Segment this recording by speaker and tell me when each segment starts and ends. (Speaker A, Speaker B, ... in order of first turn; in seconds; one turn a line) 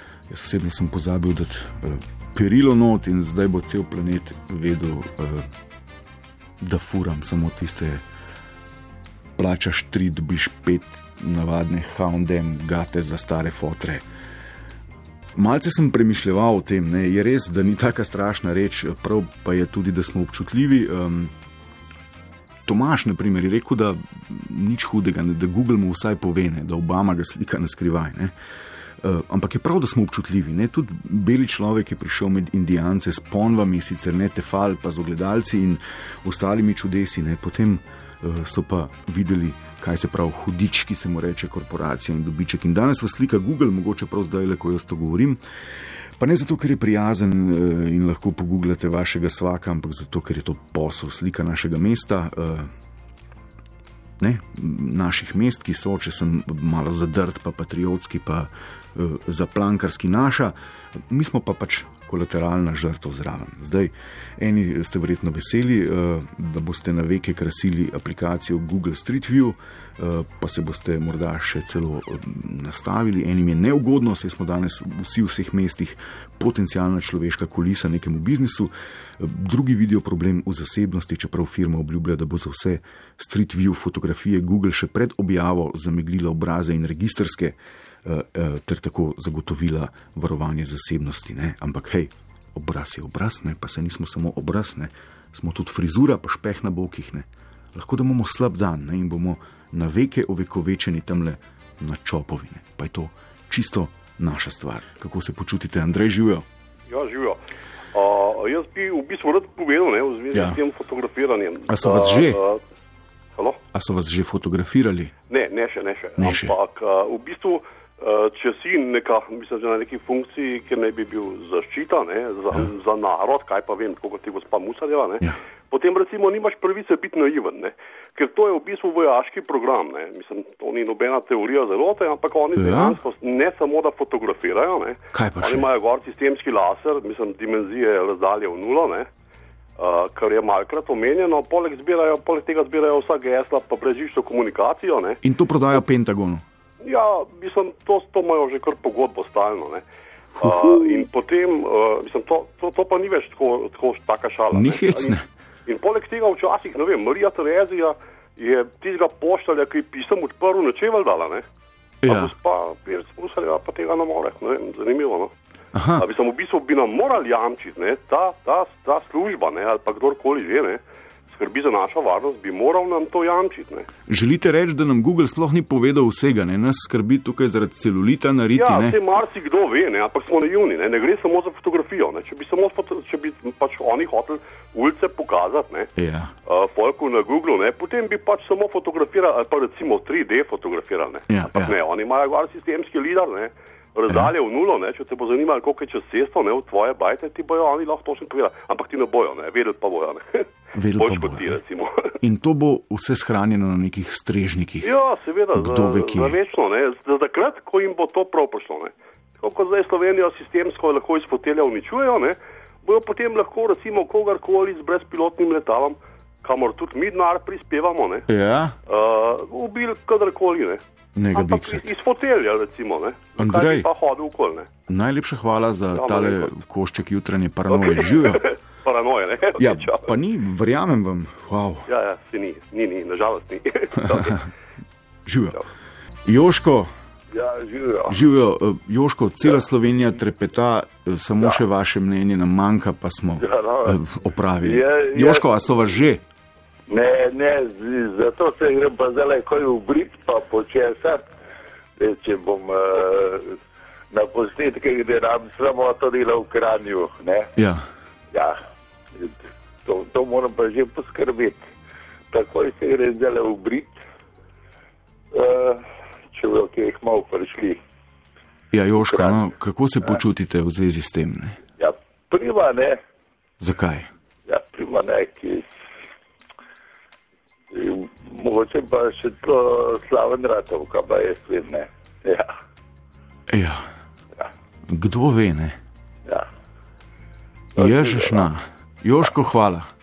Speaker A: 0.3-5.5
Speaker A: 6.6-8.0
Speaker A: 9.4-14.0
Speaker A: 15.3-21.3
Speaker A: 22.6-28.3
Speaker A: 29.0-45.4
Speaker A: 46.2-52.7
Speaker A: 54.2-60.5
Speaker A: 61.1-106.4
Speaker B: 106.9-107.4
Speaker B: 107.9-112.6
Speaker A: 110.3-110.6
Speaker A: 111.7-112.4
Speaker A: 113.7-115.1
Speaker B: 115.3-139.1
Speaker A: 116.2-116.5
Speaker A: 132.6-133.0
Speaker A: 135.1-135.7
Speaker B: 139.8-145.2
Speaker A: 145.2-146.4
Speaker B: 146.8-149.8
Speaker A: 150.4-151.0
Speaker B: 150.4-161.4
Speaker A: 154.5-155.2
Speaker A: 162.0-162.3
Speaker B: 162.0-165.3
Speaker A: 165.7-166.1
Speaker B: 166.0-173.9
Speaker A: 174.1-179.0
Speaker B: 178.5-185.9
Speaker A: 186.0-186.3
Speaker B: 186.4-202.1
Speaker A: 191.3-191.7
Speaker A: 200.7-201.6
Speaker A: 202.2-204.9
Speaker B: 204.8-218.2
Speaker A: 205.5-206.3
Speaker A: 218.3-218.7
Speaker B: 218.9-220.8
Speaker A: 221.2-221.8
Speaker B: 221.3-224.7
Speaker A: 223.4-223.9
Speaker A: 224.9-228.5
Speaker B: 225.9-226.6
Speaker B: 227.7-230.1
Speaker A: 229.6-231.8
Speaker B: 231.9-234.4
Speaker A: 235.2-235.6
Speaker A: 236.2-236.9
Speaker C: 237.3-238.2
Speaker A: 238.1-246.2
Speaker C: 243.4-244.0
Speaker C: 244.6-245.6
Speaker C: 246.9-251.2
Speaker C: 252.0-253.6
Speaker C: 254.1-257.5
Speaker A: 257.6-257.8
Speaker C: 258.3-258.6
Speaker C: 259.1-261.6
Speaker C: 262.3-264.0
Speaker C: 265.3-267.8
Speaker A: 268.7-271.6
Speaker C: 269.0-269.4
Speaker C: 271.8-273.0
Speaker A: 273.6-274.1
Speaker C: 274.5-275.7
Speaker C: 277.7-282.5
Speaker A: 283.5-283.8
Speaker A: 284.9-285.8
Speaker C: 287.7-288.5
Speaker A: 287.8-289.9